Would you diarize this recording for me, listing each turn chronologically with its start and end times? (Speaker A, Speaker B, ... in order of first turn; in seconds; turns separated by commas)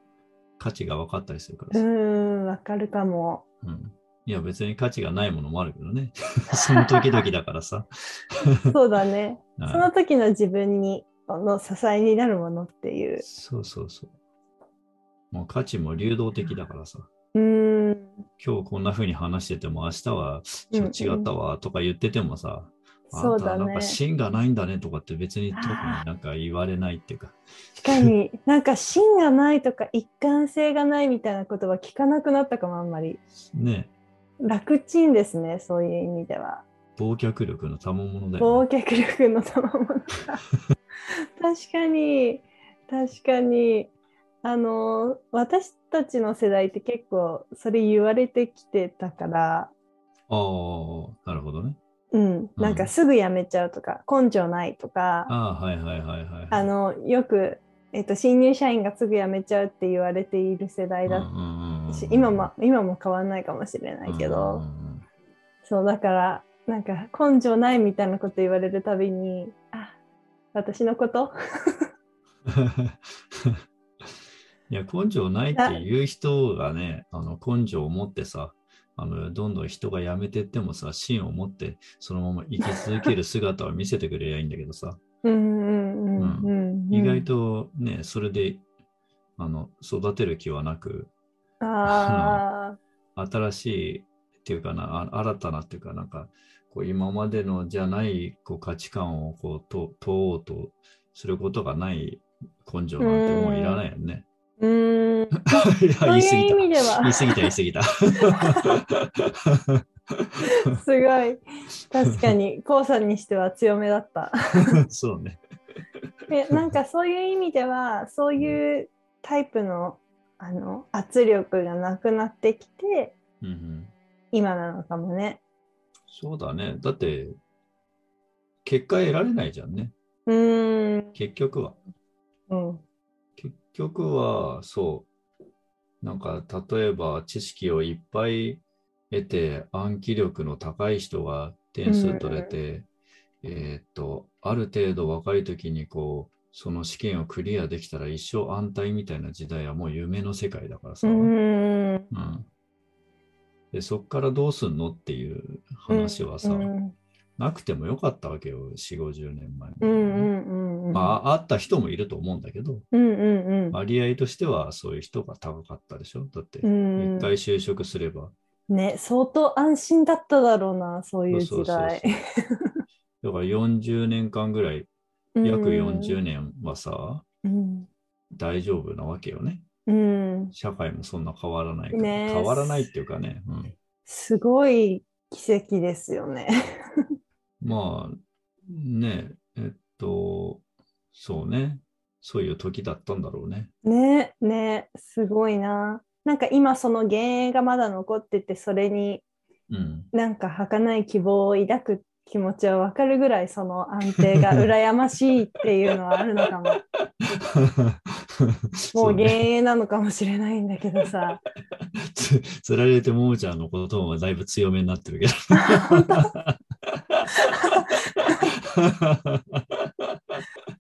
Speaker A: 0.6-1.9, Speaker B: 1.7-3.4, Speaker A: 3.6-8.6, Speaker B: 6.7-7.2, Speaker B: 8.7-13.2, Speaker A: 9.6-9.9, Speaker A: 13.2-14.1, Speaker A: 15.3-17.1, Speaker B: 17.3-18.2, Speaker A: 18.4-27.4, Speaker B: 20.7-21.3, Speaker B: 23.1-24.0, Speaker B: 25.5-26.0, Speaker B: 27.7-33.2, Speaker A: 33.4-33.9, Speaker B: 34.4-36.6, Speaker A: 37.0-38.6, Speaker B: 38.4-40.4, Speaker B: 41.4-43.9, Speaker B: 44.4-49.7, Speaker A: 50.3-51.8, Speaker B: 52.1-55.3, Speaker A: 52.6-52.9, Speaker A: 55.3-56.7, Speaker B: 56.5-61.3, Speaker A: 61.1-62.5, Speaker B: 61.9-64.6, Speaker A: 64.0-65.0, Speaker B: 65.6-70.0, Speaker B: 70.5-71.8, Speaker A: 72.5-73.6, Speaker A: 74.7-85.0, Speaker B: 75.5-75.8, Speaker B: 85.2-87.3, Speaker A: 86.2-88.6, Speaker A: 89.4-91.1, Speaker B: 91.6-92.8, Speaker A: 91.9-92.4, Speaker A: 93.2-104.2, Speaker B: 103.0-103.8, Speaker B: 104.6-107.5, Speaker A: 105.6-108.8, Speaker B: 108.3-108.6, Speaker A: 109.5-110.2, Speaker B: 110.6-114.8, Speaker A: 114.8-115.4, Speaker B: 116.3-123.1, Speaker A: 123.4-123.9, Speaker B: 124.3-125.4, Speaker A: 126.1-127.3, Speaker A: 128.6-129.9, Speaker B: 130.2-131.1, Speaker A: 131.1-131.8, Speaker B: 132.5-132.8, Speaker A: 133.4-135.1, Speaker A: 136.0-142.8, Speaker B: 141.8-142.5, Speaker A: 143.4-151.3, Speaker B: 151.0-152.1, Speaker A: 152.1-152.5, Speaker A: 153.7-156.7, Speaker B: 155.9-156.9, Speaker A: 157.4-160.3, Speaker B: 159.8-161.1, Speaker A: 160.9-162.8, Speaker B: 162.9-163.8, Speaker A: 163.7-168.3, Speaker B: 166.6-167.3, Speaker B: 168.7-172.8, Speaker A: 171.3-172.1, Speaker A: 173.2-174.9, Speaker B: 175.3-176.2, Speaker A: 175.4-177.2, Speaker B: 177.4-177.9, Speaker A: 178.3-179.6, Speaker B: 179.8-180.5, Speaker A: 180.5-183.7, Speaker B: 181.9-182.9, Speaker B: 184.1-187.1, Speaker A: 187.6-193.7, Speaker B: 193.8-199.2, Speaker A: 199.7-200.1, Speaker B: 200.1-206.8, Speaker A: 207.6-207.9, Speaker A: 208.9-209.4, Speaker B: 208.9-211.4, Speaker A: 212.1-216.5, Speaker B: 215.7-216.3, Speaker A: 217.1-220.4